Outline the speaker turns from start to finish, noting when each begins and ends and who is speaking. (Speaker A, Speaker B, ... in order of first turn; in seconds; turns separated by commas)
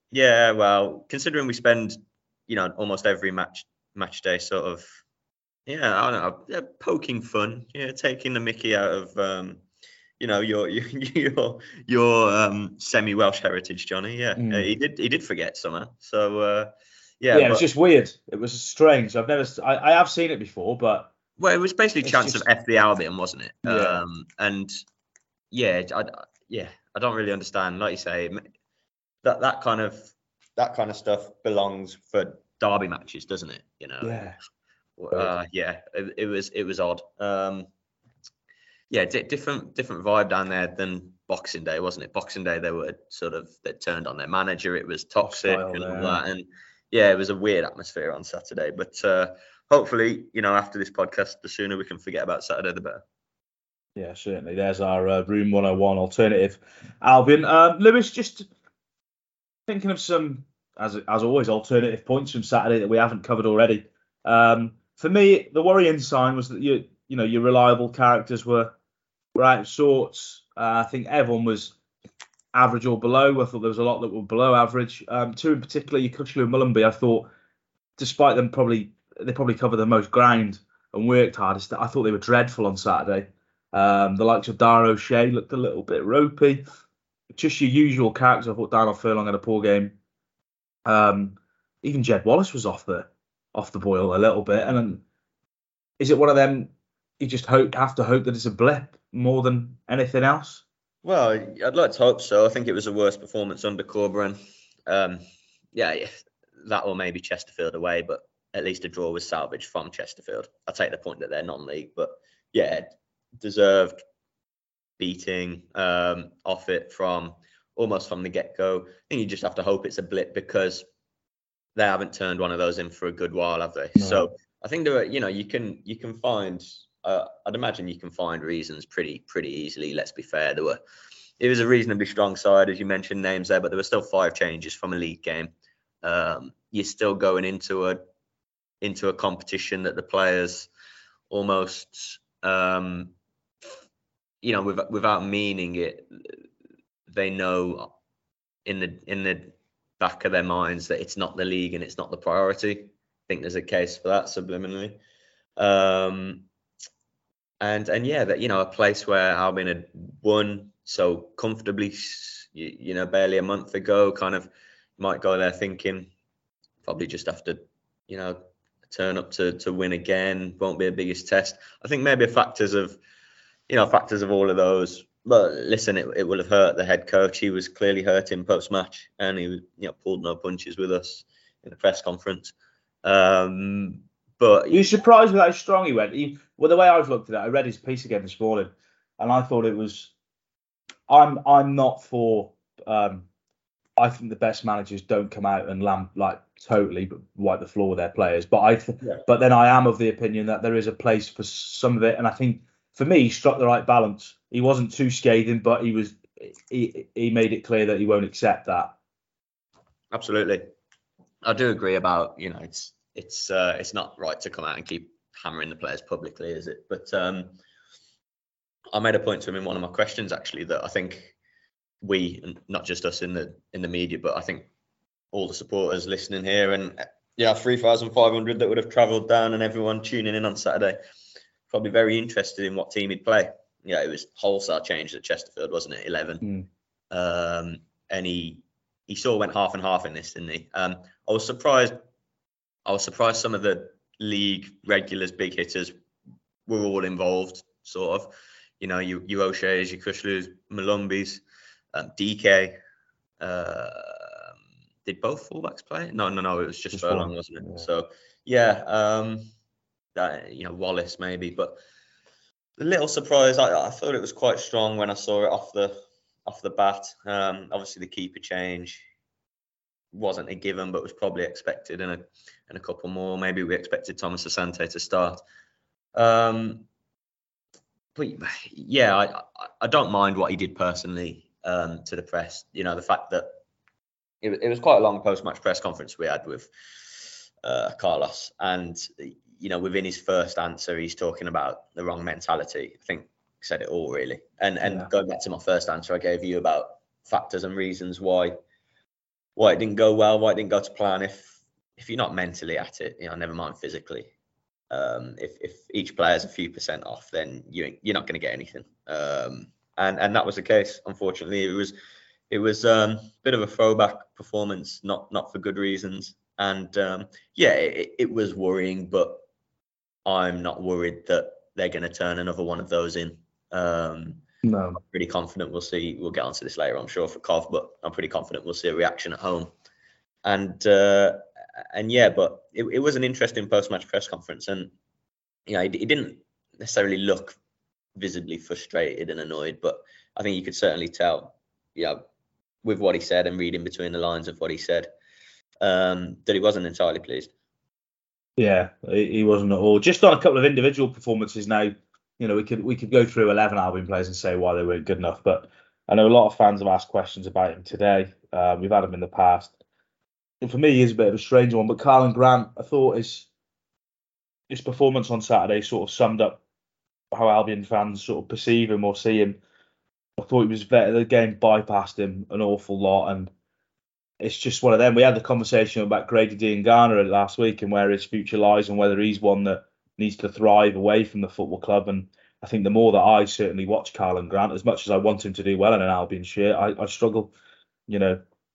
Speaker A: 0.1-4.8, Speaker A: 5.7-9.6, Speaker A: 10.2-17.6, Speaker B: 14.3-14.7, Speaker B: 17.3-21.1, Speaker A: 21.4-24.8, Speaker B: 22.0-22.5, Speaker B: 23.6-24.0, Speaker A: 25.5-28.4, Speaker A: 29.2-34.2, Speaker B: 34.0-34.4, Speaker A: 35.0-37.7, Speaker A: 38.9-53.0, Speaker B: 45.2-46.2, Speaker B: 54.0-58.5, Speaker B: 59.7-68.7, Speaker B: 69.3-71.7, Speaker B: 72.5-77.3, Speaker B: 78.0-86.6, Speaker B: 87.3-89.9, Speaker B: 90.8-95.0, Speaker B: 96.0-100.6, Speaker A: 101.0-105.2, Speaker A: 105.7-112.9, Speaker A: 113.4-114.0, Speaker A: 115.0-120.8, Speaker A: 121.8-130.8, Speaker B: 124.0-124.3, Speaker A: 131.4-135.5, Speaker A: 136.0-138.0, Speaker A: 138.8-140.7, Speaker A: 141.3-143.1, Speaker A: 144.4-146.4, Speaker A: 147.1-147.9, Speaker A: 148.6-155.0, Speaker A: 155.6-156.4, Speaker A: 157.6-166.1, Speaker A: 166.8-173.0, Speaker A: 173.7-184.9, Speaker B: 184.7-190.1, Speaker B: 191.1-193.2, Speaker B: 194.0-208.9, Speaker A: 210.1-210.6, Speaker A: 211.4-217.5, Speaker A: 218.9-221.3, Speaker A: 222.0-224.7, Speaker A: 225.3-231.0, Speaker A: 231.7-236.4, Speaker B: 236.4-236.7, Speaker A: 237.1-242.0, Speaker A: 242.8-245.9, Speaker A: 246.7-252.8, Speaker A: 253.4-254.5, Speaker A: 255.0-259.4, Speaker B: 256.9-257.9, Speaker A: 260.1-261.8, Speaker A: 262.8-265.9, Speaker A: 266.4-269.0, Speaker A: 270.1-275.4, Speaker A: 276.1-276.8, Speaker A: 278.1-283.5, Speaker A: 284.4-286.7, Speaker A: 287.6-298.6, Speaker B: 294.8-295.1, Speaker A: 299.6-304.3, Speaker A: 304.9-311.9, Speaker A: 312.5-319.4, Speaker A: 320.2-324.4, Speaker B: 324.6-325.0, Speaker A: 325.0-329.7, Speaker A: 330.4-334.9, Speaker A: 335.7-337.6, Speaker A: 338.1-342.2, Speaker A: 342.8-345.1, Speaker A: 345.8-347.5, Speaker B: 348.6-359.7, Speaker B: 360.6-363.5, Speaker B: 364.7-366.6, Speaker B: 367.3-369.6, Speaker B: 370.4-373.5, Speaker B: 374.4-387.5, Speaker B: 388.1-388.4